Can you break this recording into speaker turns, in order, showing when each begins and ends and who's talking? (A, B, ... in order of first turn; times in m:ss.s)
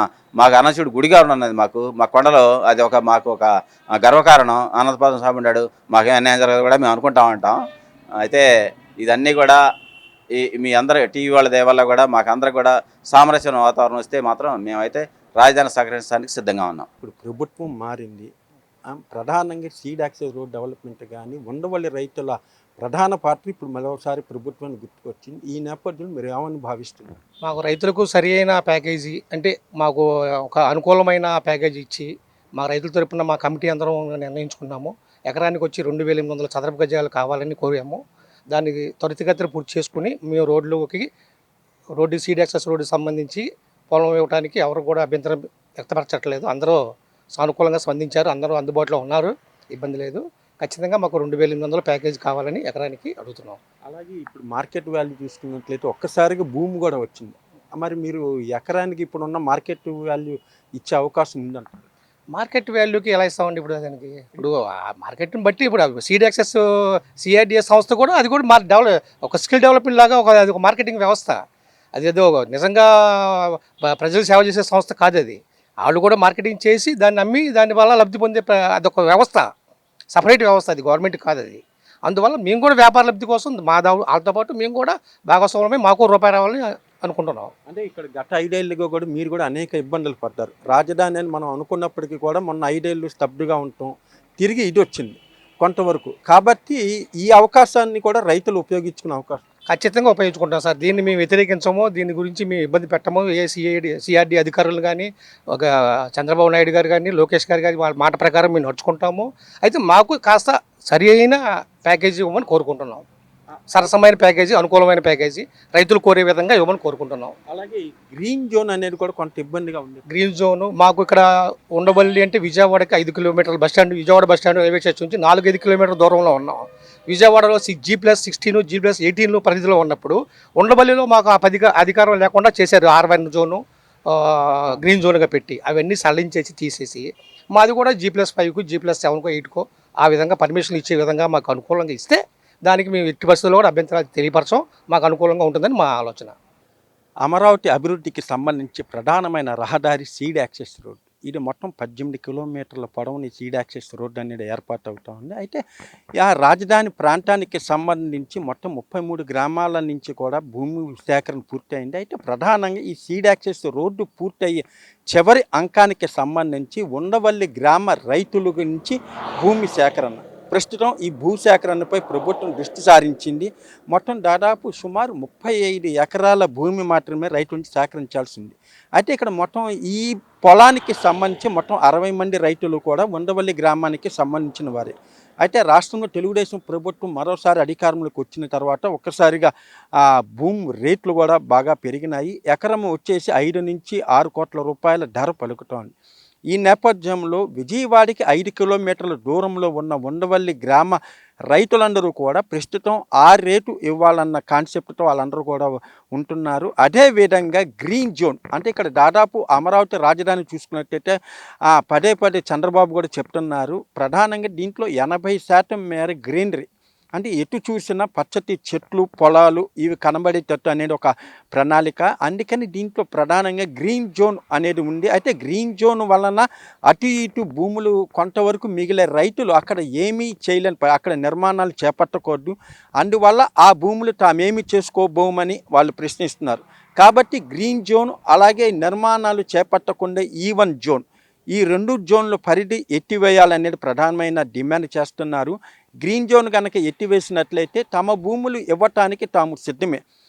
0:00.4-0:07.6 A
0:09.0-0:09.6 A
0:10.4-0:16.9 A
0:17.0-0:18.3 B
0:18.9-0:27.2 B
0:27.5-0:38.0 C
0:38.5-0:41.1 C
0:42.0-0:46.8 C
0:47.4-0:53.6 C
0:53.9-1:01.9 B
1:02.4-1:06.6 C
1:07.2-1:11.4 C
1:12.0-1:19.5 C
1:20.2-1:27.5 C
1:27.7-1:39.4 B
1:39.7-1:53.0 C
1:53.7-1:57.4 C
1:57.5-2:00.1 B
2:00.1-2:01.2 C
2:01.8-2:26.4 C
2:27.2-2:35.6 B
2:36.2-3:09.5 B
3:10.4-3:15.9 B
3:16.5-3:21.0 B
3:21.5-3:31.2 B
3:31.7-4:01.0 B
4:01.6-4:10.0 B